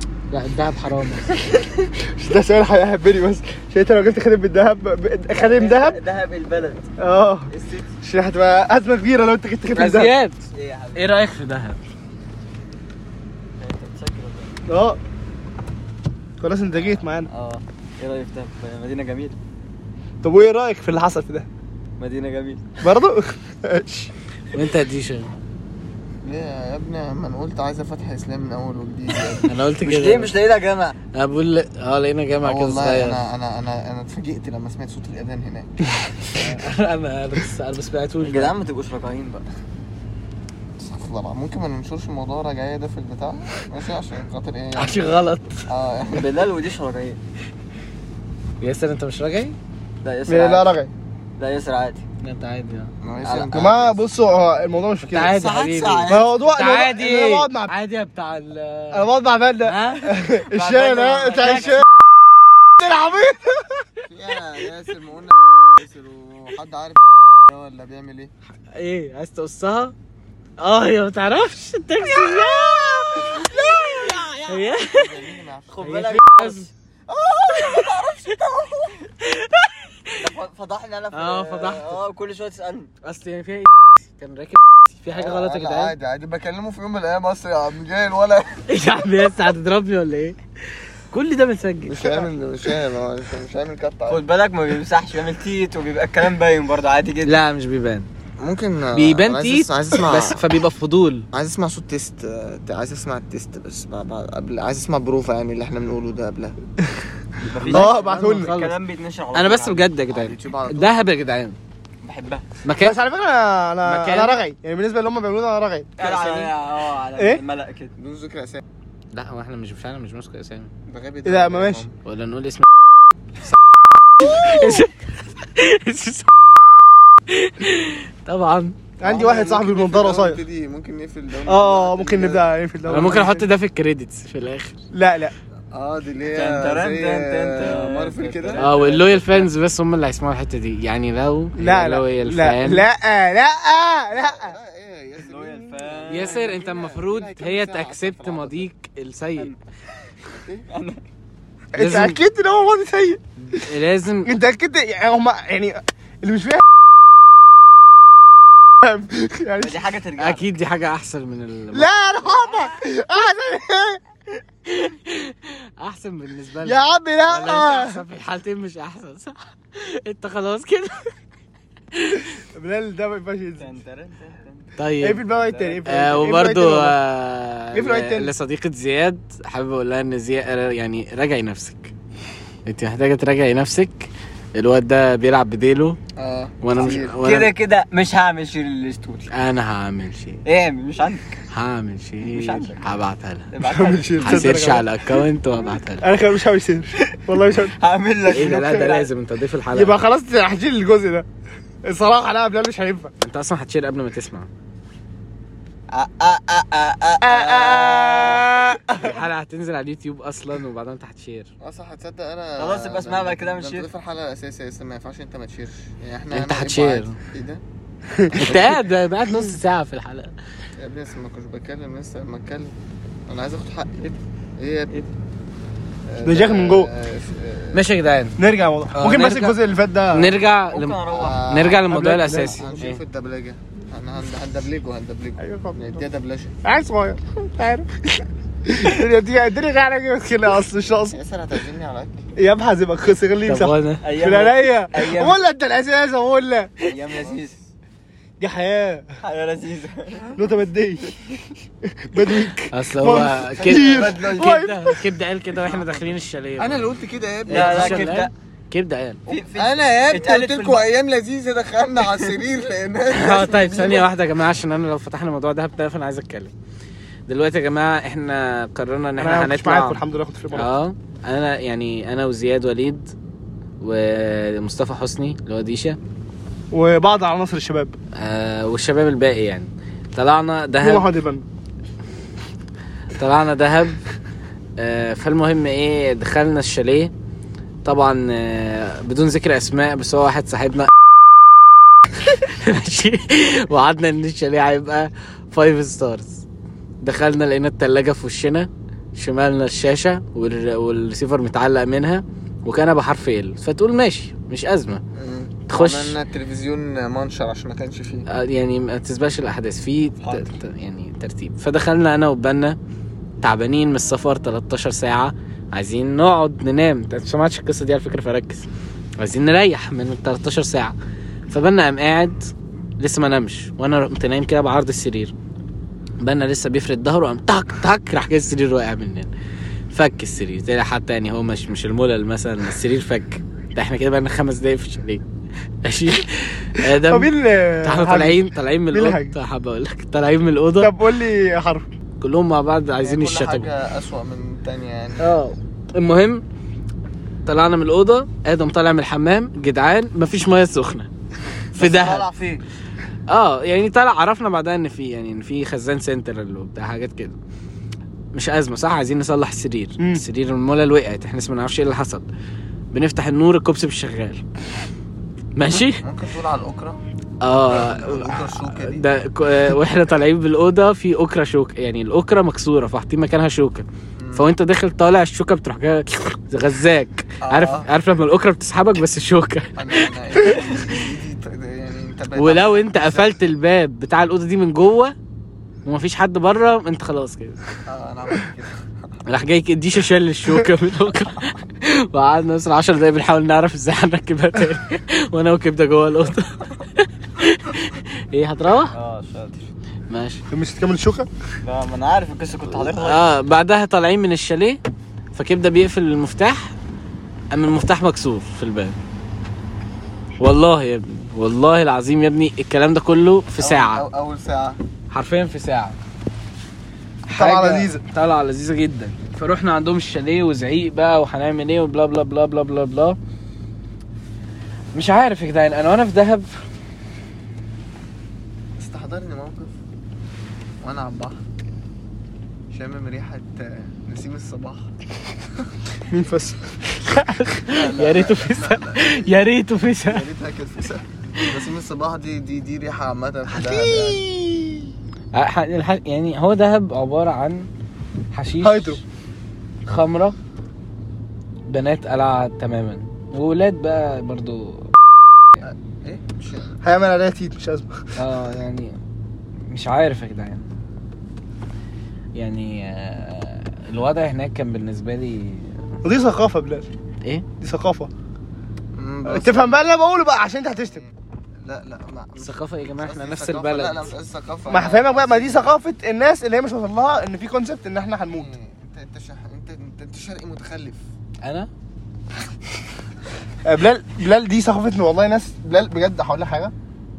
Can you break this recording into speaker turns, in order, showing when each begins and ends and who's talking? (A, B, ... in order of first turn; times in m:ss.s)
0:00.3-0:01.3 A
0:02.0-0:06.0 B
0:05.3-0:06.9 C
0:07.0-0:07.5 B
0:07.5-0:07.9 C
0:08.0-0:10.1 B
0:09.7-0:10.4 A
0:10.5-0:11.1 C
0:10.9-0:11.8 A
0:13.6-0:14.6 C
0:14.7-0:15.0 B
0:16.4-0:17.3 B
0:16.8-0:19.4 C
0:20.2-0:21.5 B
0:22.0-0:22.7 C
0:22.8-0:24.1 B
0:24.5-0:25.3 A
0:26.2-0:29.5 D
0:29.4-0:30.3 A
0:29.8-0:30.9 C
0:31.1-0:33.2 A
0:32.4-0:36.5 D
0:36.3-0:38.5 A
0:38.2-0:39.4 C
0:40.8-0:45.1 D
0:44.8-0:45.6 A
0:45.7-0:46.3 D
0:46.1-0:47.2 C
0:48.6-0:49.6 A
0:50.0-0:50.8 C
0:50.3-0:50.9 B
0:51.4-0:52.0 C
0:52.2-0:52.9 A
0:53.0-0:54.0 D
0:53.2-0:53.6 C
0:53.5-0:55.4 B
0:55.0-0:59.1 A
0:55.3-0:56.2 D
0:55.8-0:56.1 C
0:56.1-0:57.7 B
0:58.9-1:01.8 B
0:59.6-1:00.3 A
1:00.4-1:01.8 C
1:01.3-1:01.7 A
1:02.8-1:03.9 B
1:04.1-1:08.3 D
1:08.7-1:09.9 A
1:10.6-1:15.2 A
1:12.9-1:16.0 D
1:13.4-1:14.5 C
1:15.7-1:16.7 C
1:15.8-1:16.7 A
1:17.1-1:18.9 D
1:17.3-1:18.3 C
1:19.2-1:20.2 A
1:20.2-1:22.9 C
1:21.1-1:22.0 A
1:23.0-1:25.9 A
1:25.1-1:28.6 D
1:28.7-1:30.4 A
1:31.1-1:32.2 A
1:31.8-1:34.2 D
1:34.1-1:37.4 C
1:37.2-1:38.1 A
1:38.4-1:40.4 D
1:38.9-1:41.3 A
1:41.3-1:46.6 D
1:47.4-1:49.8 C
1:47.6-1:48.8 A
1:47.6-1:48.6 B
1:49.3-1:51.6 A
1:50.1-1:51.0 D
1:52.0-1:52.4 C
1:52.6-1:53.0 A
1:52.8-1:55.9 B
1:53.8-1:54.4 A
1:56.0-1:57.9 C
1:57.2-1:57.4 B
1:58.0-1:58.6 D
1:59.1-2:00.7 A
2:00.9-2:02.0 D
2:01.2-2:01.8 B
2:02.0-2:02.6 A
2:04.2-2:06.3 A
2:07.3-2:08.8 A
2:09.0-2:10.4 B
2:09.0-2:12.5 D
2:11.4-2:13.5 B
2:12.9-2:14.8 A
2:14.9-2:15.3 B
2:15.7-2:19.4 D
2:16.3-2:19.0 C
2:18.6-2:22.8 A
2:21.6-2:24.5 B
2:24.1-2:28.7 D
2:25.2-2:26.5 C
2:26.1-2:29.5 A
2:30.7-2:31.0 C
2:31.7-2:33.6 B
2:31.8-2:32.2 A
2:33.5-2:34.3 A
2:34.2-2:36.6 B
2:38.8-2:39.8 B
2:39.6-2:40.5 C
2:40.2-2:41.9 A
2:41.7-2:44.0 B
2:44.7-2:51.1 A
2:46.6-2:48.0 B
2:51.9-2:52.2 A
2:52.4-2:53.7 B
2:53.6-2:54.7 C
2:54.8-2:55.2 A
2:55.0-2:57.0 B
2:55.3-2:56.1 C
2:55.8-3:01.9 A
2:57.7-2:58.3 B
3:02.6-3:06.0 A
3:06.2-3:07.2 D
3:06.6-3:07.5 A
3:06.8-3:09.3 C
3:09.3-3:10.4 A
3:10.4-3:11.4 C
3:11.5-3:13.5 A
3:12.2-3:12.9 C
3:13.5-3:14.8 C
3:13.6-3:14.9 B
3:14.2-3:16.1 A
3:16.0-3:17.7 B
3:17.6-3:19.1 C
3:18.3-3:20.0 A
3:19.7-3:21.2 B
3:21.8-3:23.1 B
3:23.2-3:24.5 A
3:25.9-3:28.5 C
3:27.2-3:29.1 B
3:29.0-3:31.5 A
3:31.6-3:37.6 D
3:32.6-3:33.9 C
3:36.3-3:37.2 A
3:38.1-3:38.6 B
3:38.3-3:40.3 A
3:38.4-3:38.8 D
3:40.8-3:42.7 D
3:43.3-3:45.0 D
3:46.1-3:47.8 D
3:46.2-3:46.9 B
3:47.7-3:48.4 A
3:48.4-3:50.3 B
3:48.9-3:49.6 A
3:50.1-3:53.0 A
3:50.7-3:51.7 C
3:51.1-3:56.5 D
3:51.9-3:52.7 B
3:55.4-3:56.0 B
3:56.6-4:01.2 B
4:01.1-4:02.3 D
4:02.4-4:06.9 B
4:03.4-4:04.0 A
4:04.0-4:05.4 C
4:06.8-4:07.6 C
4:07.1-4:07.4 D
4:08.4-4:09.1 B
4:09.2-4:10.4 C
4:10.4-4:11.1 B
4:11.9-4:15.0 B
4:12.7-4:16.9 A
4:13.6-4:14.6 C
4:16.6-4:18.2 D
4:17.5-4:18.3 C
4:17.5-4:19.2 A
4:19.3-4:20.8 C
4:19.5-4:24.1 D
4:23.1-4:26.5 A
4:27.3-4:30.0 A
4:29.2-4:30.7 B
4:30.5-4:33.1 A
4:33.8-4:36.0 A
4:36.7-4:38.0 B
4:38.1-4:41.1 A
4:40.8-4:41.4 B
4:43.2-4:44.0 A
4:44.8-4:47.1 A
4:47.8-4:50.9 A
4:52.3-4:56.4 A
4:57.0-5:05.0 A
5:05.1-5:08.3 D
5:05.7-5:06.2 A
5:08.3-5:12.8 A
5:13.4-5:20.9 A
5:21.5-5:22.5 A
5:23.0-5:25.3 A
5:26.2-5:29.3 A
5:29.9-5:35.2 A
5:35.8-5:37.3 A
5:37.1-5:39.3 B
5:37.8-5:40.9 A
5:40.8-5:41.9 B
5:42.2-5:43.7 A
5:43.0-5:45.4 D
5:45.2-5:46.4 A
5:47.4-5:51.1 A
5:51.8-5:52.2 A
5:51.8-5:52.6 D
5:51.8-5:52.3 C
5:53.3-5:57.4 A
5:58.3-6:02.2 A
6:02.9-6:04.4 A
6:05.6-6:06.0 A
6:06.0-6:07.0 D
6:07.4-6:20.1 A
6:07.6-6:09.0 D
6:14.2-6:14.5 D
6:17.4-6:17.9 D
6:19.8-6:23.4 D
6:22.4-6:25.1 A
6:25.8-6:27.6 A
6:27.8-6:28.9 D
6:29.2-6:38.9 A
6:38.9-6:39.7 C
6:40.1-6:40.4 A
6:40.5-6:41.3 B
6:41.6-6:43.3 C
6:42.9-6:44.8 A
6:45.3-6:46.7 A
6:47.5-6:49.0 A
6:50.4-6:54.0 A
6:53.6-6:54.8 D
6:55.1-6:56.0 A
6:57.3-7:03.2 A
6:57.3-6:58.0 B
7:04.9-7:06.5 A
7:08.8-7:09.7 D
7:10.8-7:11.4 D
7:12.7-7:14.9 D
7:16.1-7:16.6 B
7:17.0-7:20.2 A
7:17.7-7:19.3 D
7:20.0-7:24.2 D
7:23.5-7:24.9 B
7:25.3-7:27.7 A
7:28.3-7:29.0 A
7:28.6-7:29.0 B
7:29.8-7:30.4 A
7:31.7-7:34.9 A
7:36.0-7:36.8 D
7:36.8-7:38.1 B
7:38.2-7:39.0 A
7:39.7-7:40.6 A
7:42.3-7:45.8 A
7:46.0-7:46.9 B
7:47.6-7:48.1 B
7:48.9-7:49.8 D
7:49.2-7:51.0 B
7:50.7-7:55.7 D
7:52.4-7:54.1 A
7:54.7-7:58.5 B
7:58.3-8:01.0 D
8:01.4-8:01.7 A
8:03.6-8:06.7 B